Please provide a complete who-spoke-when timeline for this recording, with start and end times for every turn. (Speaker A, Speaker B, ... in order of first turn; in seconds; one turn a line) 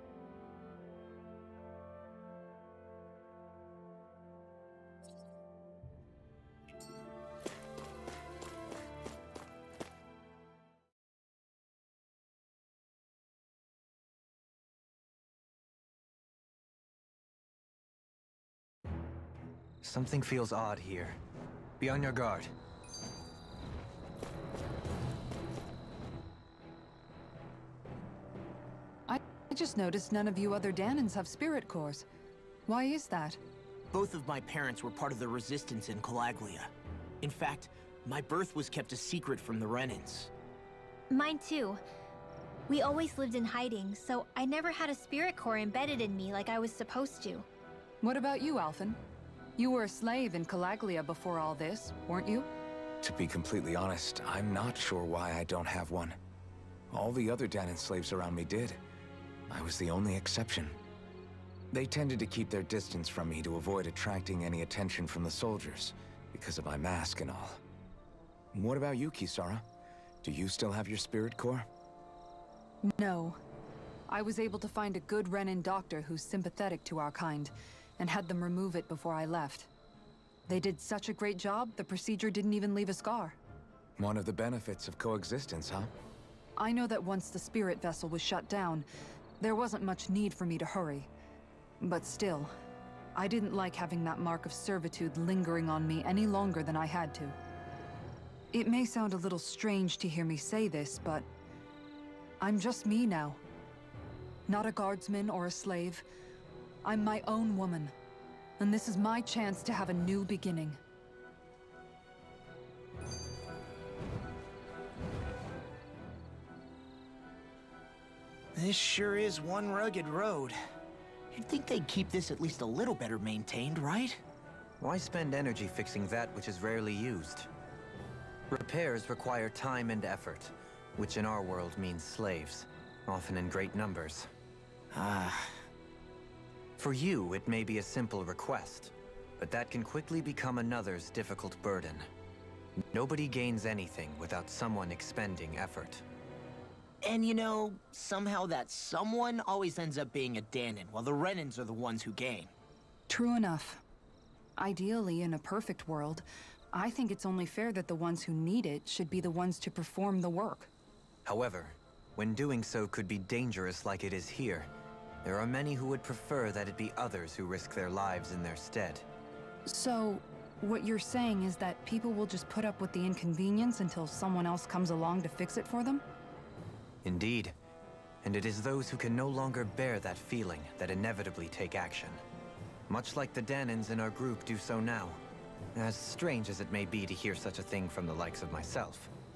Speaker A: 19.8-21.2
Speaker A: 21.8-22.5
Speaker B: 29.1-32.1
Speaker B: 32.7-33.4
Speaker C: 33.9-36.7
Speaker C: 37.2-40.3
Speaker D: 41.1-41.8
Speaker D: 42.7-47.5
Speaker B: 48.0-49.0
Speaker B: 49.6-52.5
Speaker E: 53.0-56.1
Speaker E: 56.9-58.8
Speaker E: 59.5-60.8
Speaker E: 61.7-67.6
Speaker E: 68.5-69.6
Speaker E: 70.2-71.7
Speaker B: 72.8-73.4
Speaker B: 74.1-79.7
Speaker B: 80.5-83.4
Speaker E: 84.0-85.9
Speaker B: 86.6-88.9
Speaker B: 89.4-91.1
Speaker B: 91.8-92.5
Speaker B: 93.2-97.3
Speaker B: 98.5-101.3
Speaker B: 102.4-103.4
Speaker B: 104.5-106.0
Speaker B: 106.8-107.9
Speaker B: 108.6-110.8
Speaker C: 118.5-120.5
Speaker C: 121.3-124.2
Speaker A: 124.8-127.5
Speaker A: 128.5-134.3
Speaker C: 134.9-135.5
Speaker A: 136.8-142.1
Speaker A: 142.9-146.0
Speaker C: 147.0-152.5
Speaker B: 153.1-153.8
Speaker B: 154.6-160.7
Speaker A: 161.2-164.7
Speaker A: 165.2-169.0
Speaker B: 169.7-176.0
Speaker A: 177.0-177.5
Speaker A: 178.2-182.2
Speaker A: 182.9-185.2
Speaker A: 185.7-189.1